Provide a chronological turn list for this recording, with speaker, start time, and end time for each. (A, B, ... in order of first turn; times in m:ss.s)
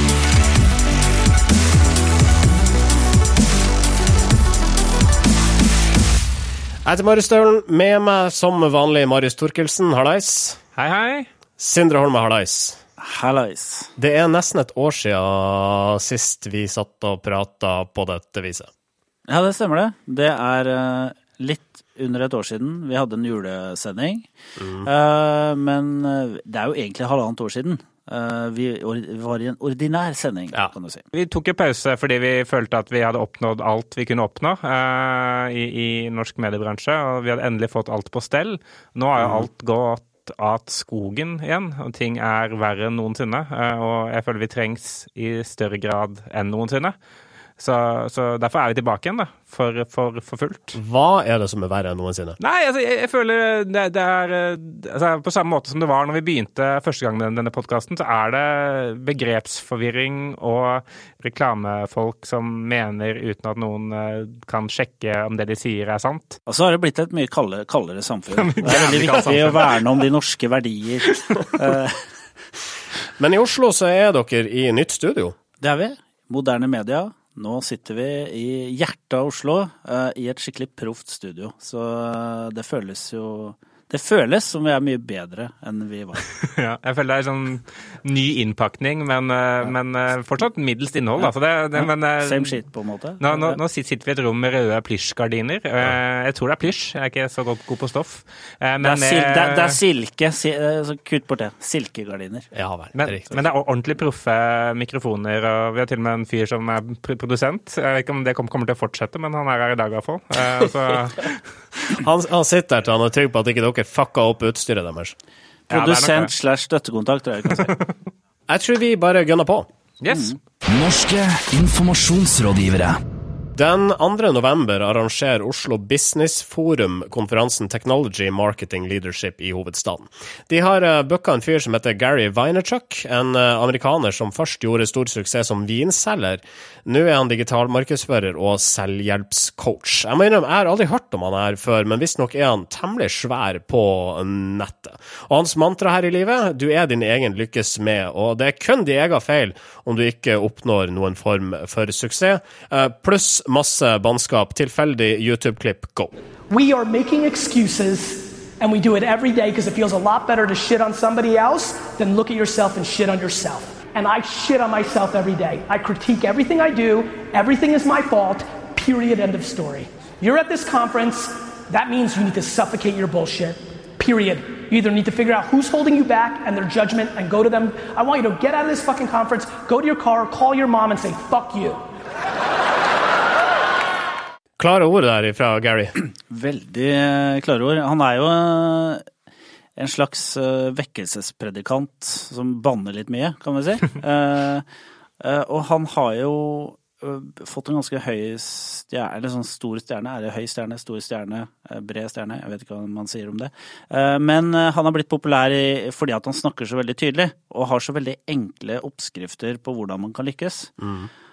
0:06.8-0:10.6 A
0:10.8-0:11.3 B
0:11.6-0:12.8 A
0:13.0-0:13.9 C
0:14.0-0:18.7 A
0:19.3-0:24.3 C
0:24.6-0:24.9 A
0:24.8-0:31.1 C
0:31.1-0:47.0 B
0:47.6-0:50.8 B
0:50.7-0:52.4 A
0:52.4-1:06.4 B
1:06.5-1:12.0 C
1:08.4-1:09.9 B
1:13.2-1:15.4 A
1:15.6-1:26.2 C
1:26.4-1:32.6 B
1:31.2-1:33.6 C
1:33.2-1:39.8 B
1:38.8-1:42.5 C
1:42.5-1:43.5 A
1:43.0-1:51.4 B
1:52.0-1:55.2 A
1:55.7-1:57.8 C
1:55.7-1:56.3 B
1:58.5-1:59.7 A
2:00.0-2:00.3 B
2:00.1-2:00.4 C
2:00.7-2:03.0 D
2:03.6-2:36.1 A
2:36.5-3:01.8 E
3:04.6-3:06.0 A
3:06.0-3:09.0 C
3:09.8-3:14.6 C
3:15.2-3:30.7 C
3:30.8-3:31.1 A